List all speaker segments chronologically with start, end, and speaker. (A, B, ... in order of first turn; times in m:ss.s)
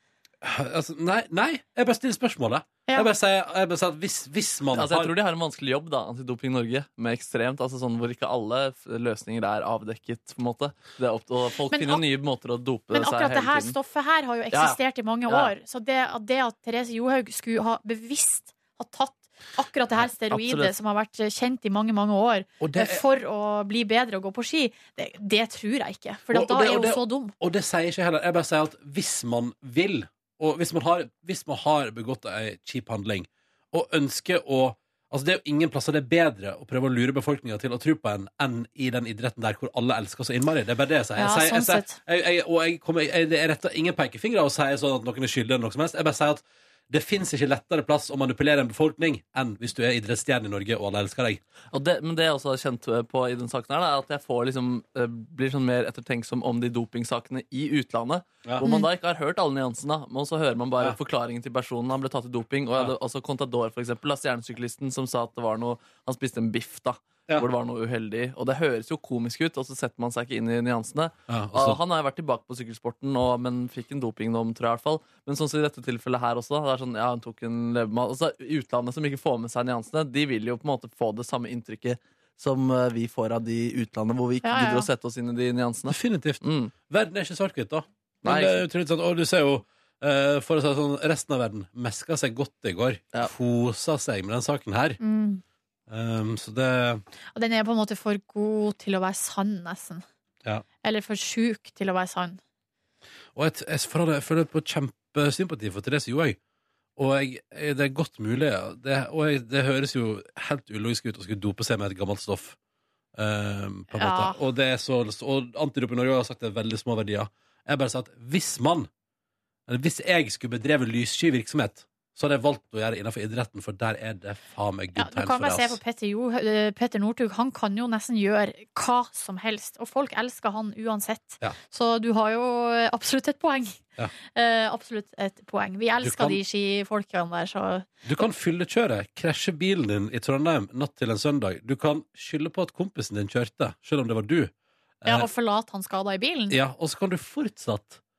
0:00.4-0:05.1 A
0:04.7-0:13.8 B
0:11.7-0:12.0 C
0:12.9-0:27.3 C
0:14.5-0:15.5 B
0:20.0-0:20.7 B
0:22.6-0:23.0 A
0:26.3-0:51.4 A
0:41.2-0:42.0 C
0:51.7-1:26.7 B
1:11.3-1:11.8 A
1:24.4-1:24.9 C
1:25.9-1:35.0 A
1:28.2-1:28.6 B
1:35.0-1:35.4 C
1:35.9-1:37.0 A
1:37.4-1:40.0 C
1:40.8-1:42.4 C
1:43.4-1:46.4 A
1:47.0-1:52.6 A
1:53.2-1:58.9 A
1:53.9-1:54.4 C
1:59.7-2:05.8 A
2:05.0-2:13.8 C
2:14.4-2:17.9 C
2:16.0-2:16.4 A
2:18.1-2:24.5 A
2:25.1-2:26.6 C
2:26.5-2:28.0 A